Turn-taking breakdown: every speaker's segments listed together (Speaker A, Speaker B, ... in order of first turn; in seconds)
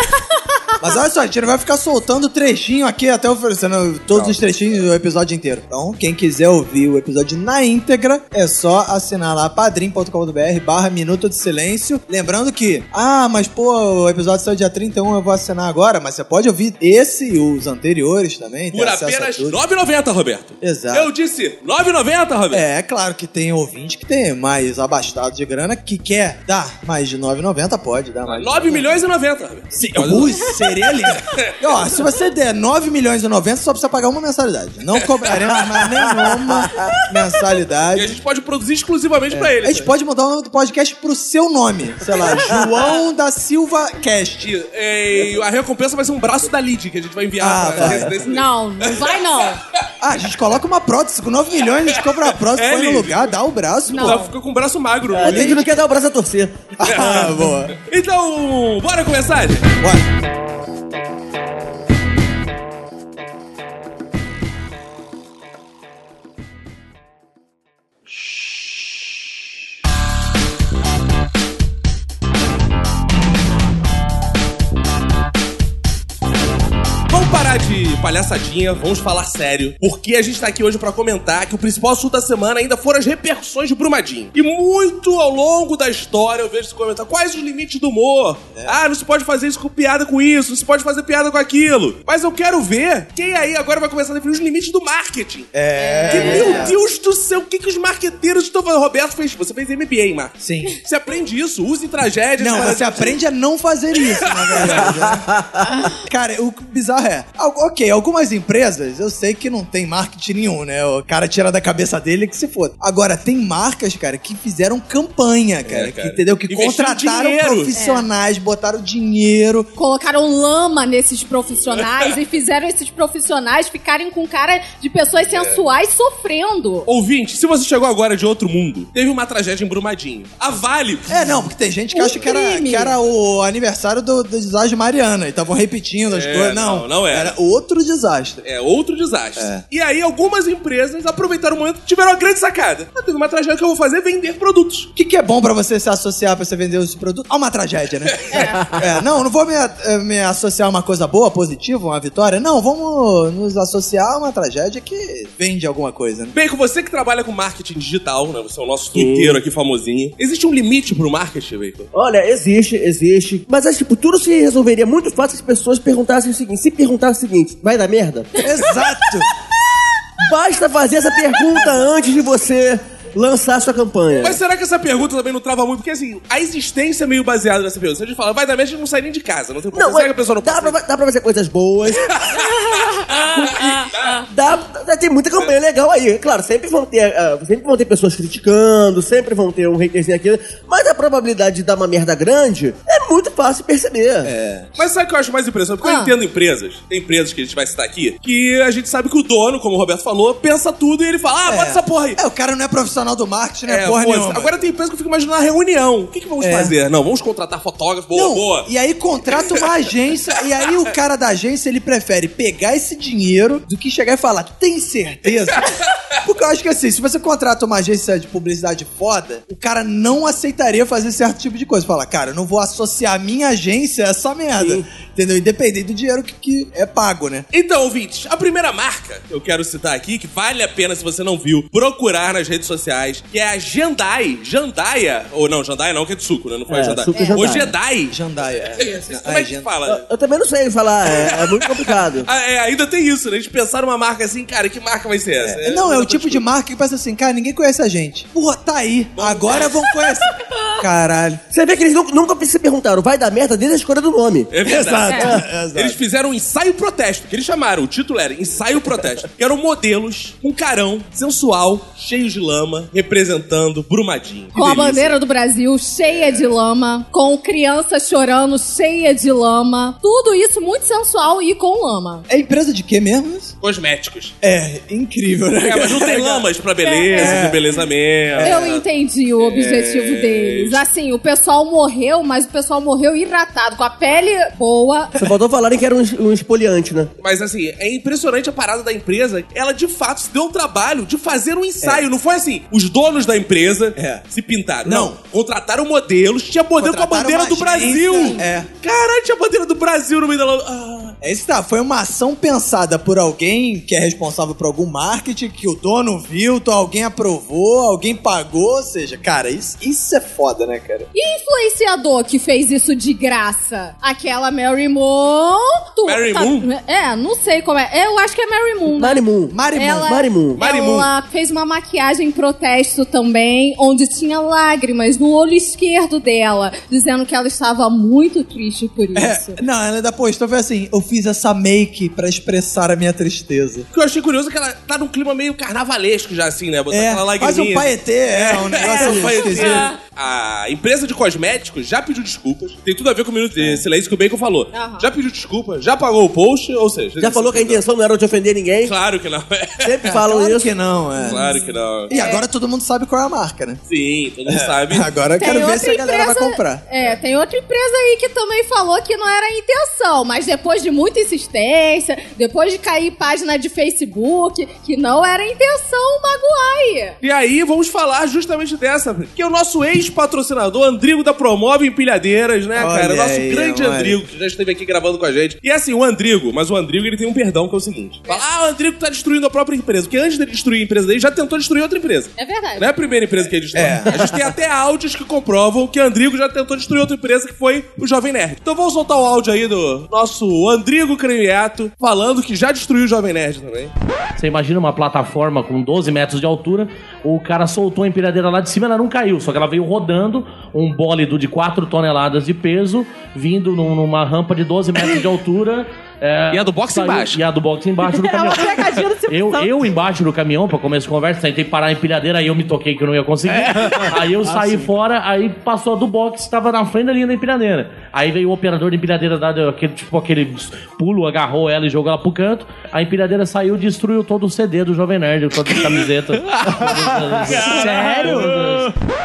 Speaker A: 0.8-19.6, 20.6-21.1, 22.5-29.0, 29.7-38.2, 39.3-44.5, 47.4-48.2, 50.0-54.3, 55.2-55.7, 56.8-57.8, 59.8-60.1, 95.5-96.8, 100.4-100.7, 102.4-119.7, 131.1-138.4, 139.4-139.6, 144.9-156.3, 168.4-169.3, 194.2-194.7, 201.5-204.7, 206.4-206.7, 208.1-215.7, 216.2-227.4, 238.1-239.7, 245.4-251.4, 254.6-256.0, 272.3-273.5, 274.4-276.5, 277.1-277.7, 278.3-278.8, 293.9-294.2, 294.8-295.1, 296.8-298.7, 301.2-311.1, 319.5-320.1, 329.1-333.9, 336.9-339.9, 343.6-343.8, 350.1-353.8, 354.5-356.8, 372.7-374.2, 383.7-384.3, 428.2-428.6
Speaker B: 4.1-4.4, 18.7-22.6, 28.2-30.5, 37.9-39.9, 44.4-49.2, 51.9-53.3, 53.9-55.6, 56.8-59.7, 77.1-95.5, 96.1-103.2, 104.3-104.9, 115.7-117.7, 125.3-125.6, 126.9-131.5, 136.1-137.3, 138.4-144.9, 148.1-148.5, 156.3-161.9, 174.2-180.8, 182.2-184.2, 194.8-202.2, 203.7-208.7, 209.3-209.7, 227.5-238.2, 238.7-240.1, 241.1-246.4, 249.2-249.9, 254.5-265.1, 266.1-266.5, 273.6-274.3, 275.6-278.8, 279.4-280.8, 287.2-301.1, 316.0-316.7, 320.6-321.1, 333.9-347.8, 348.8-350.1, 351.2-352.1, 353.9-355.1, 367.2-393.9, 406.5-407.4, 413.7-414.1, 426.4-428.9
Speaker C: 36.2-36.8, 47.8-48.1, 55.1-57.4, 104.8-105.3, 158.9-159.4, 161.9-168.3, 170.2-174.4, 179.7-182.6, 183.2-194.3, 224.6-224.8, 236.7-237.7, 239.8-242.3, 251.5-254.5, 285.2-287.1, 318.9-320.6, 347.2-348.9, 349.8-350.7
Speaker D: 48.2-49.6, 53.9-54.3, 95.8-96.7, 105.6-106.0, 117.7-118.0, 119.8-126.9, 131.9-132.9, 148.3-148.7, 195.8-196.1, 237.1-237.4, 238.8-239.1, 264.5-272.2, 276.8-277.4, 278.4-285.1, 311.1-329.6, 338.8-339.9, 344.7-345.1, 351.3-351.5, 352.1-352.4, 355.4-367.2, 382.4-382.9, 408.2-409.6
Speaker E: 394.4-428.9